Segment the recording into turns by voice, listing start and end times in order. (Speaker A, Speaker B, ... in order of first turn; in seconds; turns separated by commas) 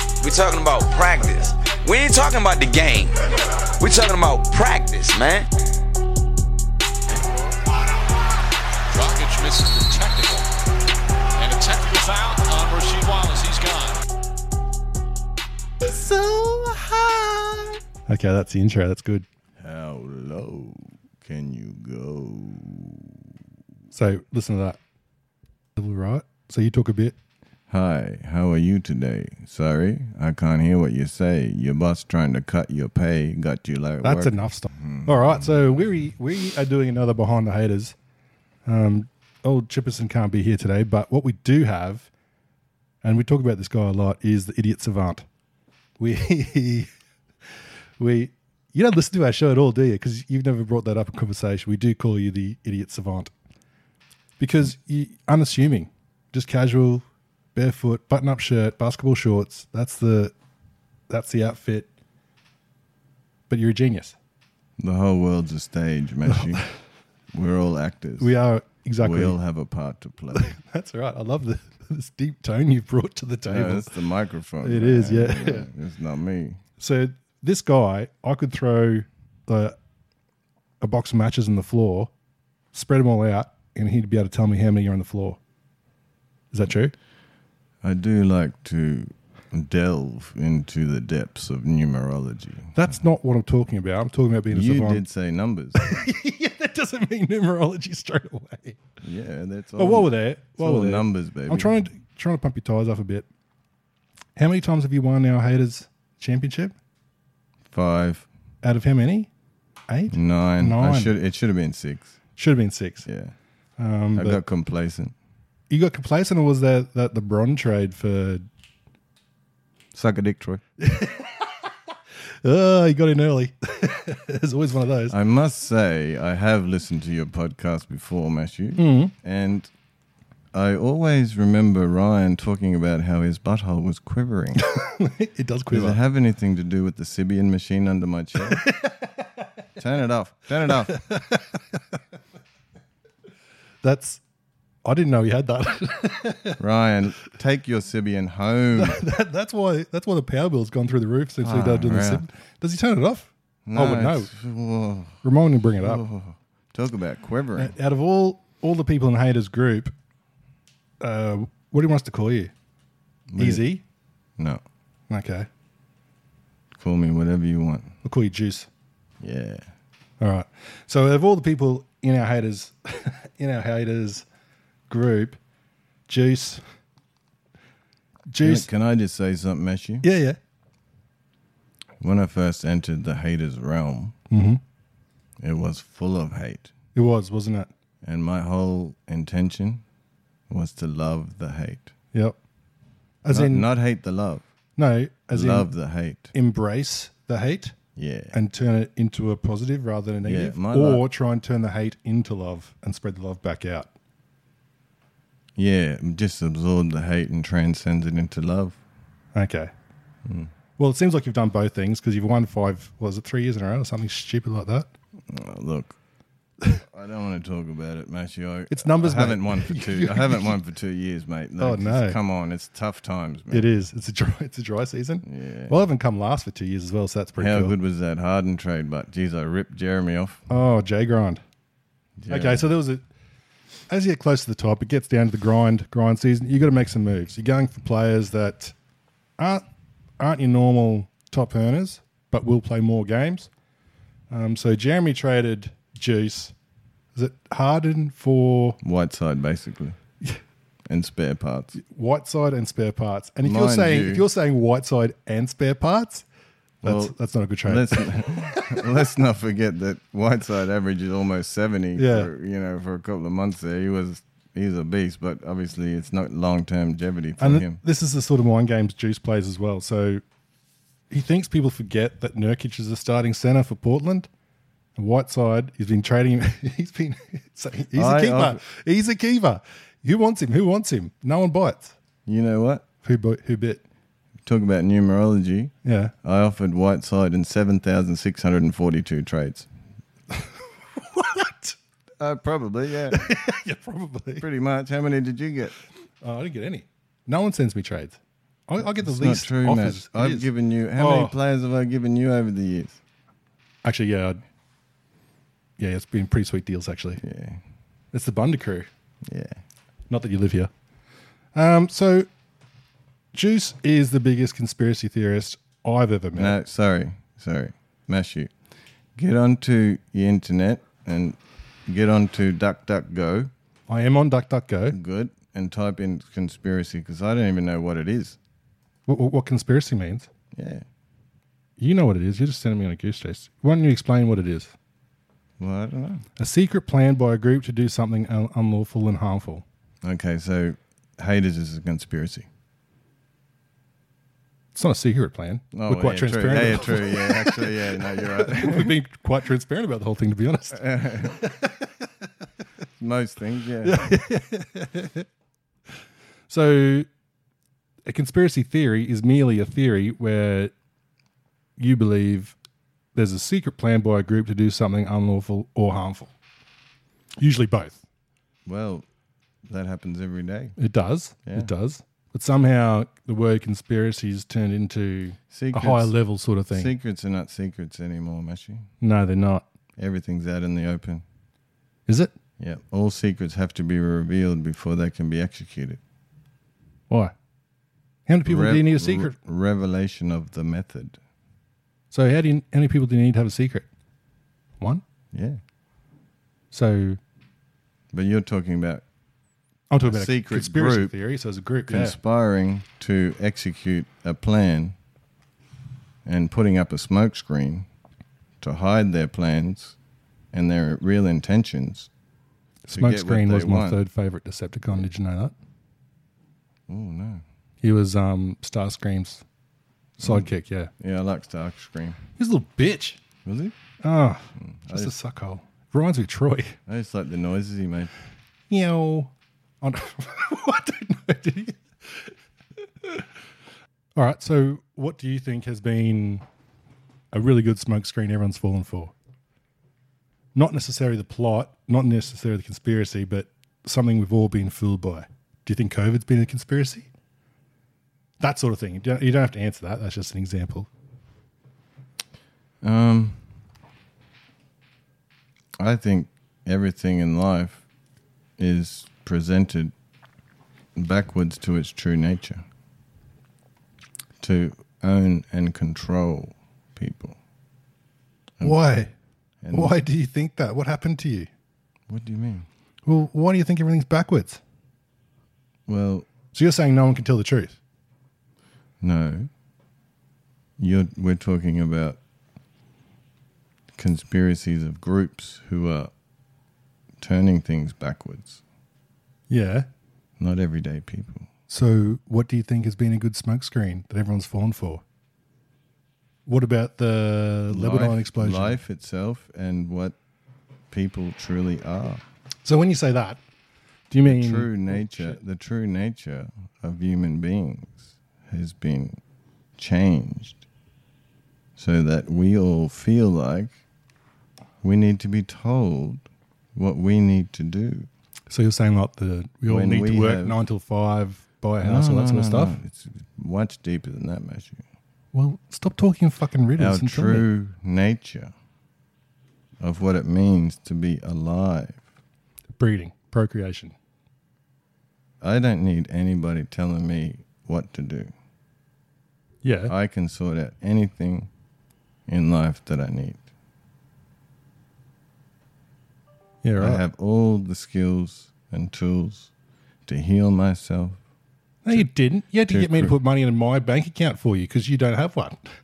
Speaker A: 0.2-3.2, Speaker A: 3.7-5.5, Speaker B: 8.9-10.5, Speaker B: 11.3-14.0, Speaker C: 15.8-17.8, Speaker D: 18.1-19.2, Speaker C: 19.6-23.2, Speaker D: 23.9-24.8, Speaker D: 25.8-27.1, Speaker C: 27.7-35.5, Speaker D: 34.0-37.9, Speaker D: 38.6-42.1, Speaker D: 43.0-45.2, Speaker D: 46.0-46.9, Speaker D: 48.0-53.3, Speaker D: 54.4-60.3, Speaker D: 61.1-61.9, Speaker D: 63.5-64.2, Speaker C: 64.8-66.6, Speaker C: 67.3-68.3, Speaker D: 68.2-69.4, Speaker C: 69.0-70.5, Speaker D: 70.3-73.9, Speaker C: 73.4-76.6, Speaker D: 74.6-75.7, Speaker D: 76.8-79.8, Speaker D: 80.8-82.1, Speaker D: 82.7-85.4, Speaker D: 86.5-86.9, Speaker C: 87.8-92.8, Speaker D: 92.7-95.0, Speaker C: 94.5-95.8, Speaker D: 95.8-98.8, Speaker C: 99.0-101.7, Speaker D: 99.8-103.2, Speaker D: 104.3-106.7, Speaker C: 107.7-108.2, Speaker D: 108.6-109.3, Speaker D: 109.9-111.1, Speaker C: 110.1-112.1, Speaker D: 112.4-113.1, Speaker C: 113.0-113.3, Speaker D: 113.8-114.4, Speaker C: 114.1-115.1, Speaker D: 115.7-118.4, Speaker C: 119.9-120.6, Speaker D: 120.8-121.7, Speaker D: 122.4-125.2, Speaker C: 125.1-129.7, Speaker D: 128.8-129.1, Speaker C: 130.5-134.6, Speaker D: 134.6-136.0, Speaker C: 135.7-138.7, Speaker D: 138.4-139.2, Speaker C: 139.8-140.9, Speaker D: 140.9-141.8, Speaker D: 143.8-144.2, Speaker D: 144.8-146.6, Speaker C: 146.6-149.0, Speaker D: 148.7-154.3, Speaker C: 151.4-152.2, Speaker C: 153.7-155.2, Speaker D: 155.2-156.0, Speaker C: 155.8-157.7, Speaker D: 157.6-159.9, Speaker D: 161.0-162.5, Speaker C: 163.3-163.6, Speaker D: 163.4-163.8, Speaker D: 165.1-165.5, Speaker C: 166.7-167.9, Speaker D: 168.0-168.7, Speaker C: 169.2-169.7, Speaker D: 170.2-174.2, Speaker D: 174.9-175.4, Speaker D: 176.1-176.6, Speaker D: 178.3-178.7, Speaker C: 178.4-180.0, Speaker D: 180.0-180.4, Speaker C: 182.0-184.1, Speaker D: 184.3-184.6, Speaker C: 185.4-186.7, Speaker D: 186.9-187.7, Speaker C: 188.0-189.8, Speaker C: 190.5-191.9, Speaker D: 192.1-192.4, Speaker D: 193.2-193.7, Speaker C: 193.3-194.4, Speaker D: 194.8-195.7, Speaker C: 195.3-196.3, Speaker D: 196.3-197.8, Speaker C: 197.9-198.3, Speaker D: 198.3-203.9, Speaker C: 200.2-201.0, Speaker C: 205.6-208.8, Speaker D: 209.3-209.7, Speaker C: 210.2-210.5, Speaker D: 210.8-214.9, Speaker C: 215.3-216.0, Speaker C: 216.8-223.7, Speaker D: 218.7-220.6, Speaker D: 221.6-222.2, Speaker D: 223.5-227.7, Speaker C: 225.2-225.7, Speaker C: 227.4-230.4, Speaker D: 230.5-231.4, Speaker C: 232.2-232.7, Speaker D: 232.3-233.0, Speaker D: 233.9-238.7, Speaker D: 239.4-239.6, Speaker D: 240.2-243.5, Speaker D: 244.3-246.5, Speaker D: 247.1-248.8, Speaker C: 248.8-250.0, Speaker C: 250.9-251.8, Speaker D: 251.8-256.2, Speaker C: 253.4-254.2, Speaker D: 256.8-258.8, Speaker C: 256.8-257.1, Speaker C: 257.6-267.8, Speaker D: 261.9-262.3, Speaker D: 267.4-270.2, Speaker D: 271.1-274.3, Speaker D: 274.9-281.9, Speaker C: 277.9-278.6, Speaker C: 282.2-282.8, Speaker D: 283.0-283.8, Speaker C: 284.4-285.7, Speaker D: 285.8-286.1, Speaker C: 286.2-289.7, Speaker D: 290.3-291.8, Speaker C: 292.2-293.3, Speaker D: 293.1-294.4, Speaker C: 294.4-295.7, Speaker D: 296.2-301.4, Speaker C: 299.0-303.0, Speaker D: 303.8-304.4, Speaker D: 305.8-307.2, Speaker C: 307.2-307.6, Speaker D: 308.1-308.9, Speaker C: 309.2-309.6, Speaker D: 310.1-310.7, Speaker D: 311.5-312.3, Speaker D: 313.3-316.6, Speaker C: 316.4-318.5, Speaker C: 319.1-323.5, Speaker D: 323.9-325.0, Speaker C: 324.9-328.4, Speaker D: 329.1-330.3, Speaker C: 330.5-330.9, Speaker D: 331.8-334.7, Speaker C: 335.6-336.2, Speaker D: 336.4-339.6, Speaker C: 340.0-342.5, Speaker D: 344.7-352.0, Speaker C: 345.7-348.9, Speaker C: 350.7-351.4, Speaker C: 353.0-354.0, Speaker D: 353.8-355.3, Speaker D: 356.5-357.1, Speaker D: 358.1-360.7, Speaker D: 361.8-362.6, Speaker D: 363.1-366.3, Speaker D: 367.4-368.0, Speaker C: 368.6-369.1, Speaker C: 369.7-370.7, Speaker D: 370.8-376.9, Speaker C: 375.5-376.1, Speaker C: 376.7-378.9, Speaker D: 379.0-379.6, Speaker C: 380.0-381.2, Speaker D: 382.1-382.3, Speaker C: 382.6-386.0, Speaker D: 388.3-389.4, Speaker C: 388.4-391.2, Speaker D: 392.1-393.9, Speaker C: 395.3-395.6, Speaker D: 396.7-397.2, Speaker C: 398.1-399.0, Speaker D: 399.9-402.1, Speaker C: 400.0-401.1, Speaker C: 401.9-404.9, Speaker C: 406.2-407.9, Speaker C: 408.6-409.9, Speaker C: 410.5-412.1, Speaker D: 412.8-415.5, Speaker C: 412.9-414.0, Speaker C: 416.9-417.4, Speaker D: 417.8-419.4, Speaker D: 420.2-420.9, Speaker C: 420.2-420.5, Speaker C: 421.0-422.2, Speaker D: 422.4-423.2, Speaker C: 423.4-423.7, Speaker D: 424.0-426.8, Speaker C: 424.6-425.1, Speaker C: 426.9-428.1, Speaker D: 428.7-432.3, Speaker D: 433.0-433.3, Speaker D: 434.1-436.4, Speaker D: 437.3-439.1, Speaker D: 440.5-447.1, Speaker D: 448.4-450.9, Speaker C: 452.8-453.4, Speaker C: 455.8-457.8, Speaker C: 458.6-459.9, Speaker C: 460.9-462.6, Speaker C: 464.4-467.4, Speaker D: 468.6-469.1, Speaker C: 469.6-470.0, Speaker D: 469.7-471.5, Speaker C: 472.1-472.7, Speaker D: 473.1-474.6, Speaker C: 475.9-476.3, Speaker D: 476.5-477.8, Speaker C: 479.0-479.5, Speaker C: 480.8-482.2, Speaker C: 483.9-486.1, Speaker C: 487.2-488.6, Speaker D: 489.5-489.9, Speaker C: 490.4-491.5, Speaker D: 491.7-495.0, Speaker D: 496.4-498.8, Speaker C: 497.7-500.1, Speaker C: 500.9-502.2, Speaker D: 502.6-503.4, Speaker D: 504.1-505.4, Speaker C: 504.2-509.2, Speaker C: 509.8-510.6, Speaker C: 511.8-513.7, Speaker C: 514.8-516.2, Speaker C: 516.7-518.1, Speaker D: 518.5-522.8, Speaker C: 519.7-520.6, Speaker C: 521.8-524.8, Speaker D: 525.3-527.5, Speaker C: 526.8-528.5, Speaker C: 529.8-532.0, Speaker D: 532.8-533.9, Speaker C: 535.4-538.3, Speaker D: 539.6-539.9, Speaker C: 539.9-541.5, Speaker C: 542.3-543.4, Speaker D: 546.6-547.0, Speaker C: 546.8-549.5, Speaker C: 550.0-551.2, Speaker D: 551.8-555.6, Speaker C: 552.7-553.1